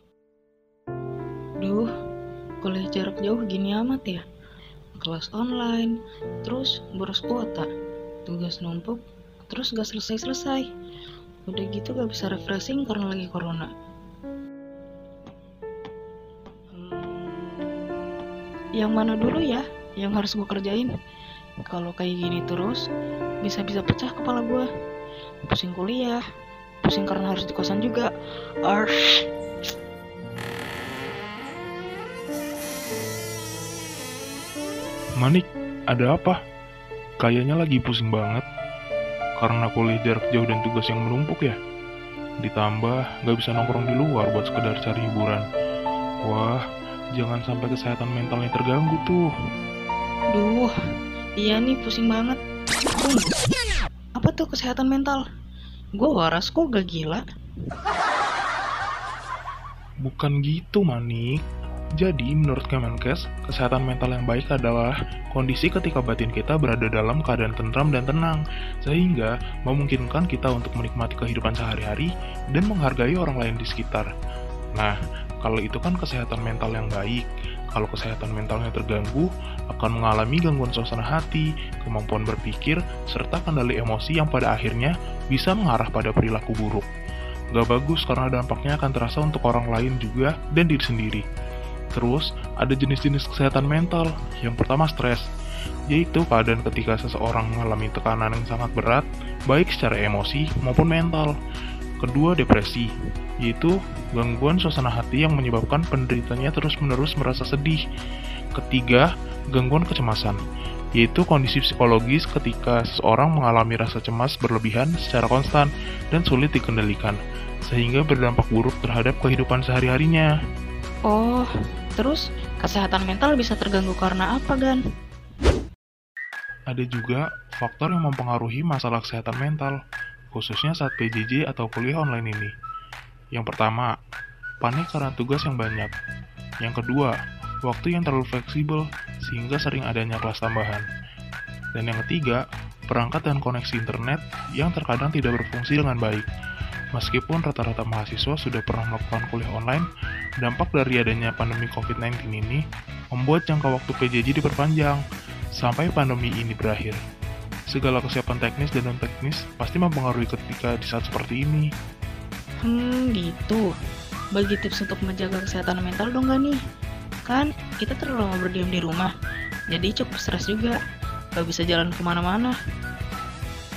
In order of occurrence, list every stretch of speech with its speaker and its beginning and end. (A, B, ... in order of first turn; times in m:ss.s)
0:01.6-0:01.9 A
0:02.6-0:04.2 A
0:05.0-0:07.7 A
0:08.3-0:10.7 A
0:11.5-0:13.7 A
0:16.7-0:17.4 A
0:18.8-0:20.9 A
0:21.6-0:22.8 A
0:23.4-0:24.6 A
0:25.5-0:26.2 A
0:26.8-0:28.1 A
0:28.7-0:29.2 A
0:35.2-0:36.4 B
0:37.2-0:38.4 B
0:39.4-0:41.6 B
0:42.4-0:45.4 B
0:46.2-0:46.6 B
0:47.2-0:49.3 B
0:50.3-0:50.7 A
0:51.4-0:52.4 A
0:52.9-0:53.4 A
0:54.2-0:55.2 A
0:56.0-0:57.2 A
1:00.0-1:01.4 B
1:02.0-1:14.1 B
1:14.8-1:26.9 B
1:27.5-1:31.2 B
1:32.0-1:35.2 B
1:35.9-1:41.3 B
1:42.0-1:42.9 B
1:43.4-1:47.8 B
1:48.6-1:50.4 B
1:51.0-2:00.3 B
2:01.1-2:04.8 A
2:06.7-2:09.8 B
2:10.3-2:12.5 B
2:13.3-2:13.9 B
2:14.6-2:15.9 B
2:16.6-2:20.8 B
2:21.8-2:26.2 B
2:26.9-2:29.8 B
2:30.4-2:35.0 B
2:35.6-2:37.0 B
2:37.7-2:41.7 B
2:42.6-2:43.7 A
2:44.3-2:46.6 A
2:47.2-2:49.1 A
2:49.7-2:50.8 A
2:51.4-2:52.5 A